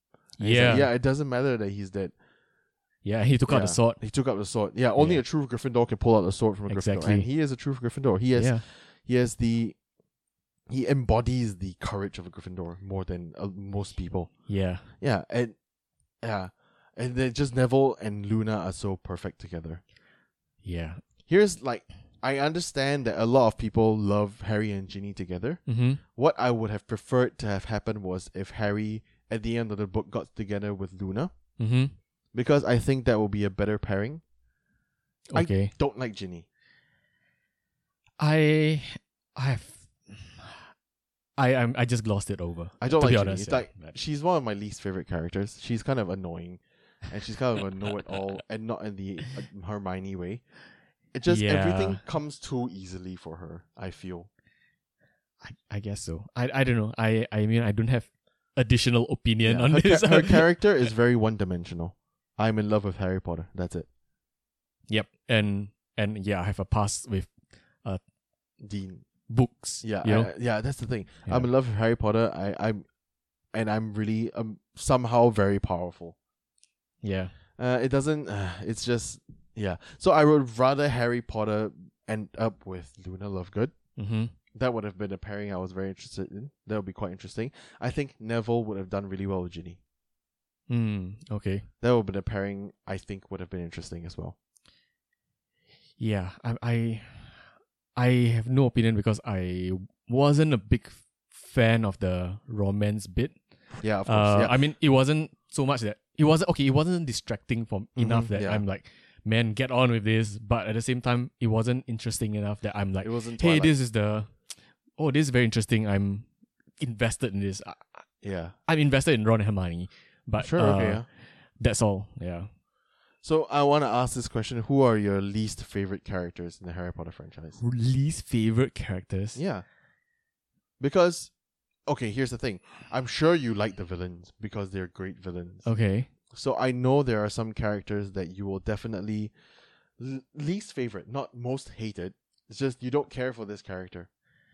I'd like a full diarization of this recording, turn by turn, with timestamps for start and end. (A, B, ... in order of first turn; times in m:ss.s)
0:00.4-0:00.9 A
0:00.4-0:02.1 B
0:03.0-0:04.0 A
0:03.5-0:09.8 B
0:05.0-0:05.2 A
0:06.7-0:07.3 A
0:08.4-0:08.6 A
0:10.7-0:15.6 B
0:14.5-0:14.9 A
0:16.2-0:19.8 B
0:20.6-0:21.0 A
0:21.3-0:25.6 B
0:25.7-0:26.0 A
0:26.1-0:31.3 B
0:31.6-0:32.0 A
0:32.3-0:34.2 B
0:35.3-0:35.7 A
0:35.3-0:36.4 B
0:38.2-0:40.7 A
0:41.4-0:44.0 A
0:42.8-0:50.4 B
0:51.1-0:54.3 B
0:51.3-0:52.0 A
0:55.4-1:00.5 A
0:59.4-1:03.9 B
1:04.9-1:07.3 A
1:08.6-1:09.0 B
1:09.3-1:10.3 A
1:09.8-1:12.8 B
1:13.5-1:16.2 B
1:17.0-1:17.3 A
1:17.6-1:23.7 B
1:24.0-1:24.3 A
1:24.5-1:29.8 B
1:30.7-1:31.7 A
1:31.8-1:34.4 B
1:36.0-1:43.4 A
1:43.8-1:44.6 B
1:44.0-1:54.4 A
1:48.0-1:48.6 B
1:53.0-1:53.8 B
1:55.0-1:56.3 A
1:56.8-1:58.0 A
1:58.2-1:58.6 B
1:58.7-2:02.5 A
2:00.4-2:01.1 B
2:03.2-2:07.6 B
2:07.6-2:09.4 A
2:09.4-2:09.6 B
2:10.8-2:11.3 B
2:11.9-2:15.7 B
2:15.6-2:16.1 A
2:16.3-2:19.3 B
2:20.0-2:24.1 B